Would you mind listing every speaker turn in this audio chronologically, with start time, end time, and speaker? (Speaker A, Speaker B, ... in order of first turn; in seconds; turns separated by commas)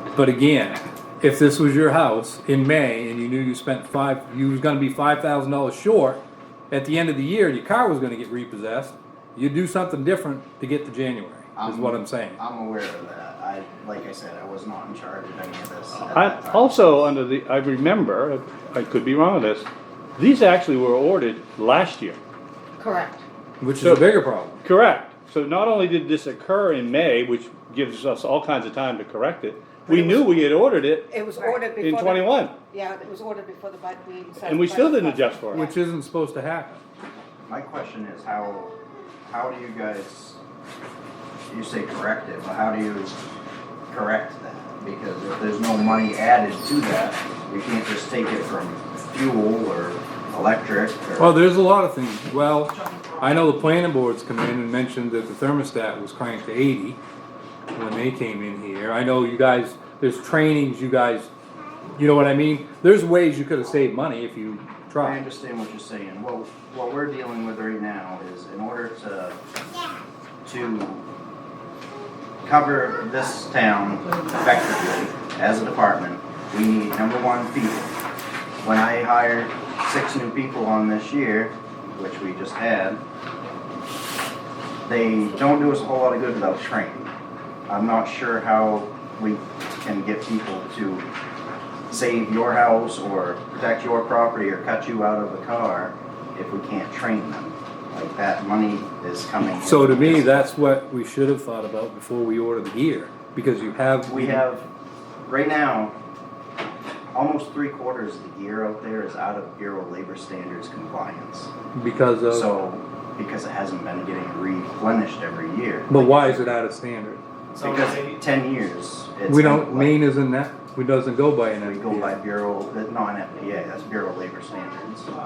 Speaker A: 0.1-12.4, Speaker B: 11.6-17.0, Speaker C: 15.9-22.2, Speaker D: 22.8-23.2, Speaker A: 23.6-24.6, Speaker C: 23.8-31.2, Speaker D: 29.9-30.3, Speaker D: 31.1-35.7, Speaker C: 31.8-32.5, Speaker C: 34.4-35.6, Speaker A: 35.5-36.8, Speaker B: 37.5-38.7, Speaker B: 39.2-40.4, Speaker B: 41.5-43.2, Speaker B: 43.9-51.4, Speaker A: 51.2-57.0, Speaker A: 57.7-61.3, Speaker A: 62.0-65.2, Speaker B: 65.0-69.4, Speaker B: 70.4-71.0, Speaker B: 72.4-77.9, Speaker B: 78.6-83.0, Speaker B: 84.8-87.1, Speaker B: 87.7-91.0, Speaker B: 91.9-100.5, Speaker A: 99.6-104.4, Speaker B: 104.0-104.7, Speaker B: 105.2-105.9, Speaker B: 107.1-111.5, Speaker A: 111.7-112.5, Speaker B: 112.3-116.5, Speaker A: 115.9-117.2, Speaker B: 117.5-120.0, Speaker C: 117.6-118.1, Speaker A: 119.3-122.2, Speaker B: 121.6-125.1